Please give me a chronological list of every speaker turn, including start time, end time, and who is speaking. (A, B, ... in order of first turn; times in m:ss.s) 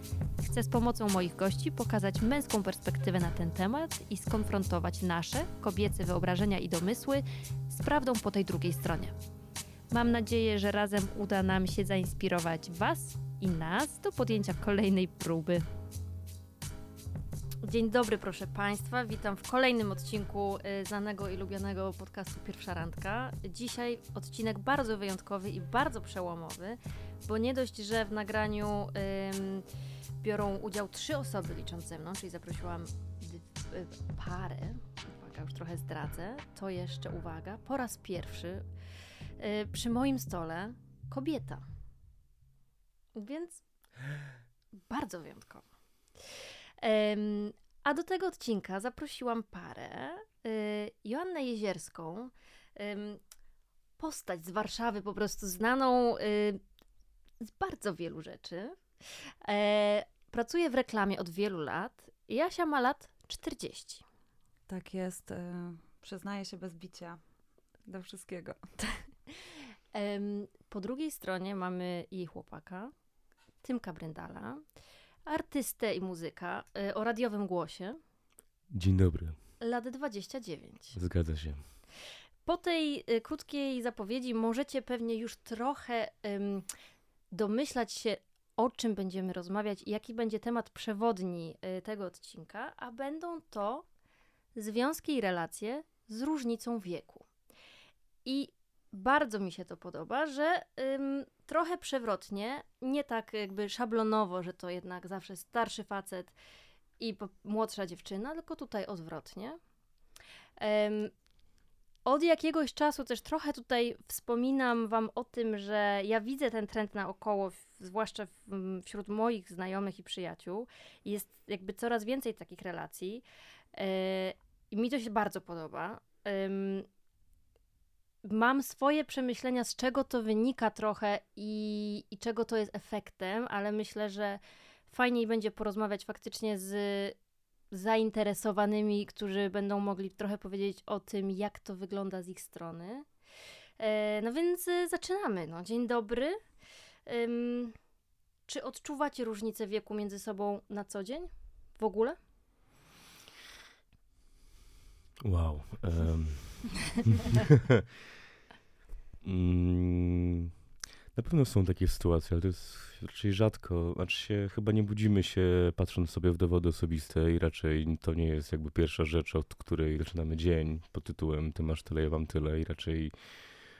0:00.4-0:09.2 A
0:09.9-0:15.6 A
0:17.6-0:29.6 A
0:30.2-0:38.6 A
0:39.4-0:41.6 A
0:43.1-0:43.6 A
0:44.9-0:53.2 A
0:54.0-0:56.6 A
0:57.4-1:04.0 A
1:04.7-1:07.2 B
1:07.9-1:09.0 B
1:09.3-1:12.9 A
1:13.6-1:14.6 A
1:15.2-1:18.0 A
1:18.7-1:19.4 C
1:19.6-1:21.0 A
1:20.9-1:21.6 C
1:22.4-1:26.7 A
1:27.3-1:33.8 A
1:34.5-1:37.2 A
1:38.2-1:46.3 A
1:47.0-1:49.6 A
1:50.6-1:51.1 A
1:52.0-2:03.2 A
2:03.7-2:06.9 A
2:08.2-2:17.2 A
2:17.7-2:23.1 A
2:23.8-2:26.4 A
2:27.0-2:27.7 A
2:28.5-2:32.2 A
2:35.2-2:37.8 C
2:39.2-2:40.5 C
2:41.1-2:53.1 C